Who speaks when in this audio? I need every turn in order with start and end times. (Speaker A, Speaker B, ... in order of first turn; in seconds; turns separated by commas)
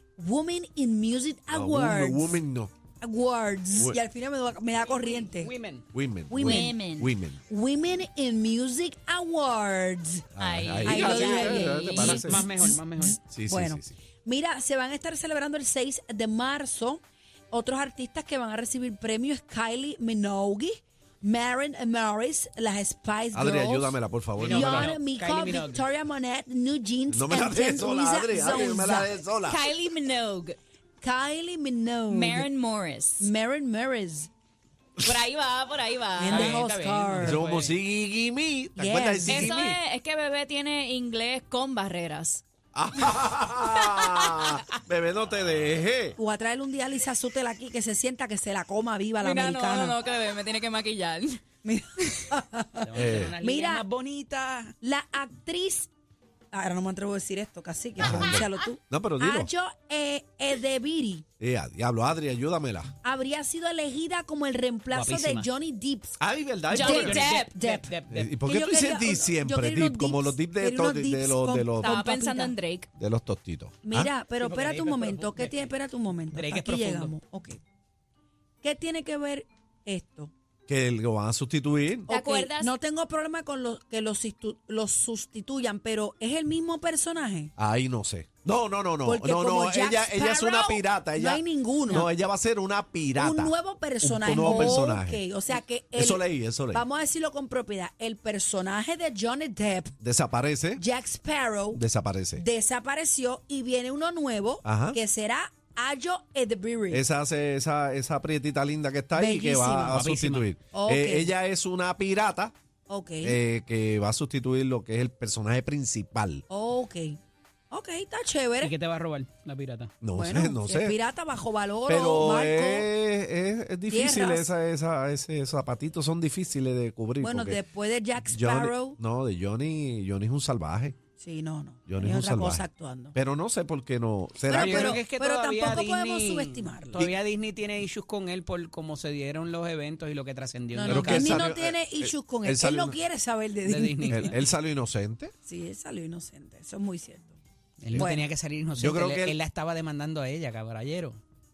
Speaker A: 0.2-2.4, Speaker B: 1.5-2.7, Speaker A: 3.0-5.5, Speaker C: 5.0-5.8, Speaker B: 5.9-7.4, Speaker A: 6.3-6.8, Speaker D: 6.4-7.1, Speaker A: 7.5-10.3, Speaker B: 10.3-12.5, Speaker D: 10.4-11.0, Speaker A: 10.8-29.2, Speaker C: 10.9-13.2, Speaker D: 11.9-12.2, Speaker B: 13.3-13.9, Speaker B: 23.3-24.9, Speaker C: 24.4-25.8, Speaker B: 27.1-29.7, Speaker D: 29.4-30.6, Speaker A: 31.0-32.5, Speaker D: 32.1-33.3, Speaker A: 33.2-34.3, Speaker D: 35.0-36.5, Speaker A: 36.2-37.4, Speaker C: 36.3-37.7, Speaker B: 37.2-39.8, Speaker A: 38.8-39.5, Speaker D: 39.3-42.4, Speaker B: 42.7-46.1, Speaker D: 43.8-44.6, Speaker A: 46.2-50.0, Speaker D: 49.2-51.4, Speaker A: 51.6-53.8, Speaker C: 52.8-54.7, Speaker B: 52.9-53.3, Speaker A: 54.8-55.9, Speaker A: 56.5-61.2, Speaker B: 58.0-59.5, Speaker B: 61.4-62.9, Speaker A: 63.0-66.2, Speaker C: 64.9-65.5, Speaker B: 66.2-67.3, Speaker D: 66.7-67.5, Speaker A: 66.8-72.5, Speaker C: 66.8-68.3, Speaker B: 68.1-71.9, Speaker D: 71.8-72.9, Speaker B: 73.0-74.1, Speaker A: 73.8-77.6, Speaker C: 74.4-75.7, Speaker C: 76.3-77.1, Speaker A: 78.6-80.3, Speaker B: 80.7-82.1, Speaker A: 82.1-87.5, Speaker D: 82.1-82.7, Speaker B: 87.6-95.2, Speaker A: 89.0-92.1, Speaker A: 93.2-99.9, Speaker B: 95.9-96.8, Speaker B: 100.0-100.8, Speaker A: 100.8-101.8, Speaker B: 101.7-102.4, Speaker A: 102.3-107.0, Speaker B: 104.6-105.0, Speaker B: 106.9-112.5, Speaker A: 109.1-110.0, Speaker C: 109.9-110.5, Speaker A: 110.7-111.3, Speaker A: 112.9-113.4, Speaker B: 113.2-116.4, Speaker A: 116.5-117.2, Speaker A: 117.7-118.7, Speaker C: 118.6-119.9, Speaker B: 120.0-121.0, Speaker A: 120.1-122.9, Speaker B: 121.8-127.6, Speaker A: 123.9-124.5, Speaker A: 127.2-129.0, Speaker B: 128.2-130.9, Speaker A: 131.2-133.2, Speaker B: 131.9-135.0, Speaker A: 134.5-137.0, Speaker C: 134.5-141.4, Speaker A: 140.7-144.3, Speaker B: 140.9-143.0, Speaker C: 143.6-144.4, Speaker B: 144.1-145.3, Speaker A: 145.4-147.4, Speaker C: 147.8-151.2, Speaker A: 147.9-148.2, Speaker B: 148.8-149.3